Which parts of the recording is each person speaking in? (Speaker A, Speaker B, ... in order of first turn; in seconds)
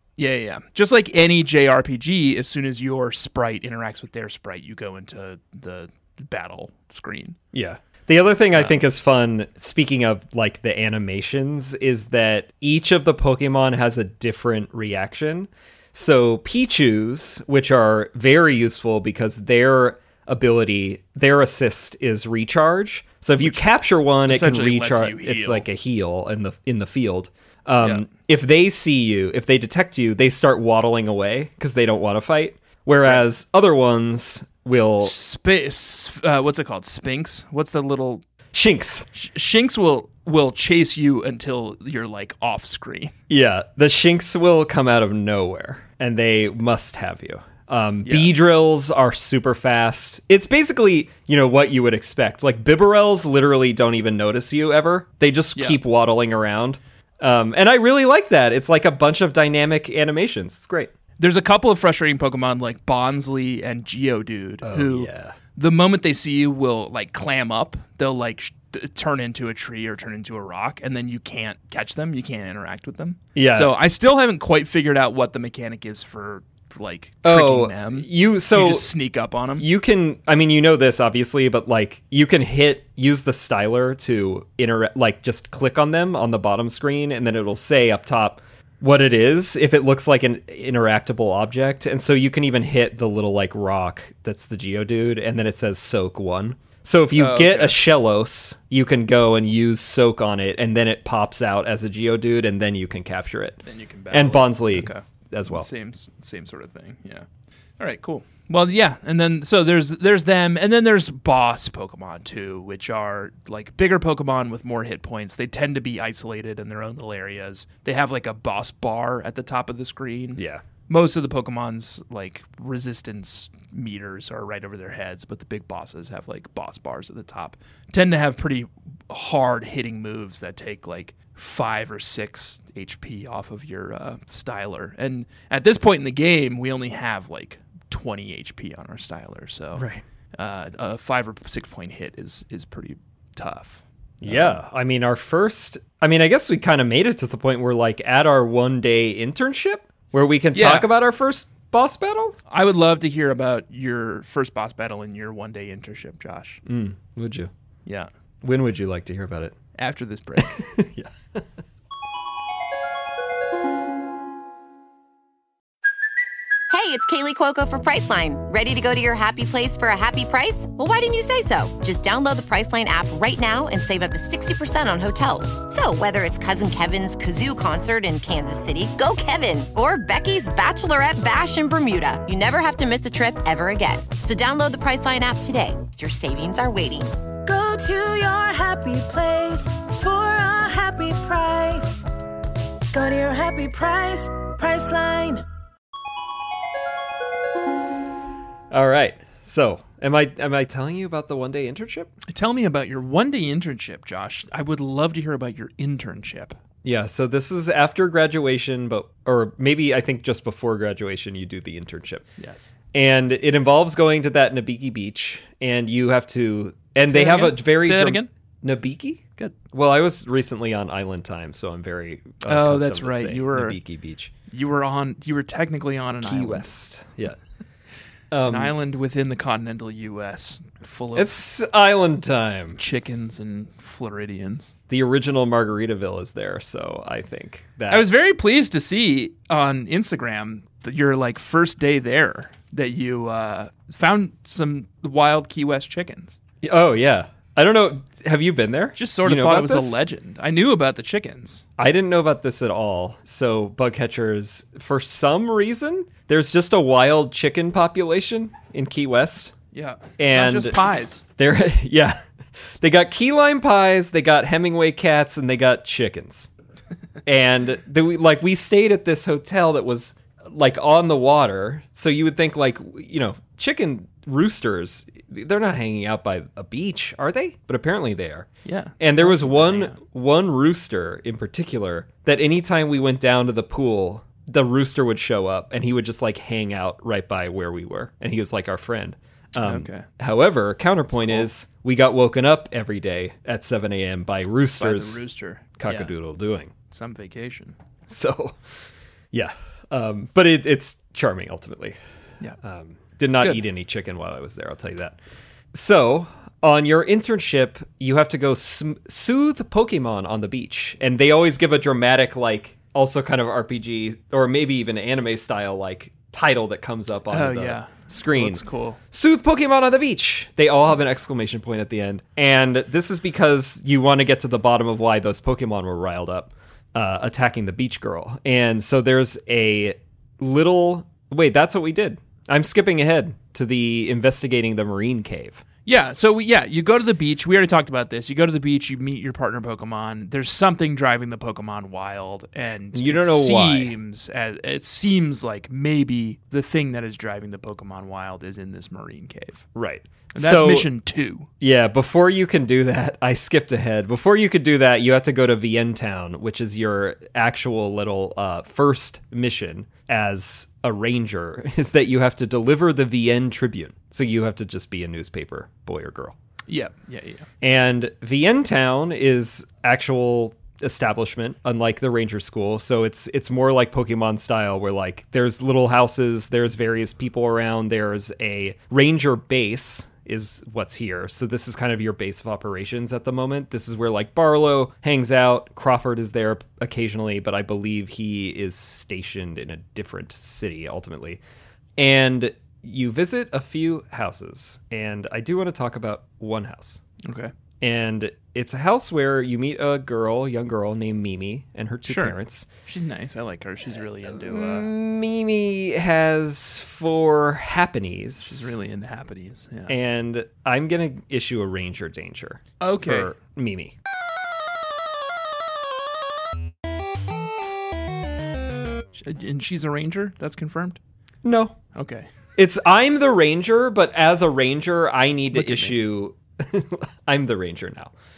Speaker A: 0.2-7.4, 8.5-8.8, 23.4-23.7, 24.2-25.6, 35.0-38.2, 39.1-43.1, 48.0-48.3, 55.5-55.8, 61.2-79.7, 97.1-97.8, 103.6-107.3, 107.8-139.8, 140.3-144.6, 150.5-150.9, 152.5-156.6, 159.8-160.6, 202.3-206.6, 212.4-212.7, 217.0-218.3, 222.4-223.8, 224.5-226.7, 228.4-231.4, 232.8-234.7, 237.9-246.4, 248.9-251.7, 259.7-261.2, 278.6-280.0, 289.6-290.1, 291.1-291.5, 294.8-296.1, 296.9-297.8, 317.3-319.0, 335.9-349.6, 350.3-351.5, 366.7-367.5, 397.2-397.5, 402.1-404.9, 408.4-409.9, 412.8-413.3, 419.2-421.0, 421.9-422.2, 425.5-425.9
Speaker B: 7.5-35.1, 38.5-39.1, 43.3-60.9, 64.6-65.3, 73.3-73.7, 77.2-78.9, 79.6-105.7, 120.4-120.6, 139.8-140.0, 144.2-152.4, 156.7-157.5, 158.4-159.6, 160.4-161.4, 198.7-202.1, 206.8-212.2, 212.9-224.3, 226.2-227.4, 228.3-228.7, 231.1-232.8, 234.9-238.1, 246.6-249.9, 251.8-259.5, 260.2-260.8, 261.4-262.2, 262.8-266.5, 267.2-278.5, 279.0-295.2, 295.8-296.7, 298.1-298.6, 299.3-301.9, 302.6-305.2, 305.7-335.6, 342.9-343.9, 349.7-350.9, 351.6-366.3, 367.6-391.4, 392.0-397.0, 397.8-402.7, 404.3-408.7, 409.9-413.9, 421.4-421.8, 422.6-428.1
Speaker C: 166.7-187.1
Speaker D: 187.4-192.0, 192.9-195.4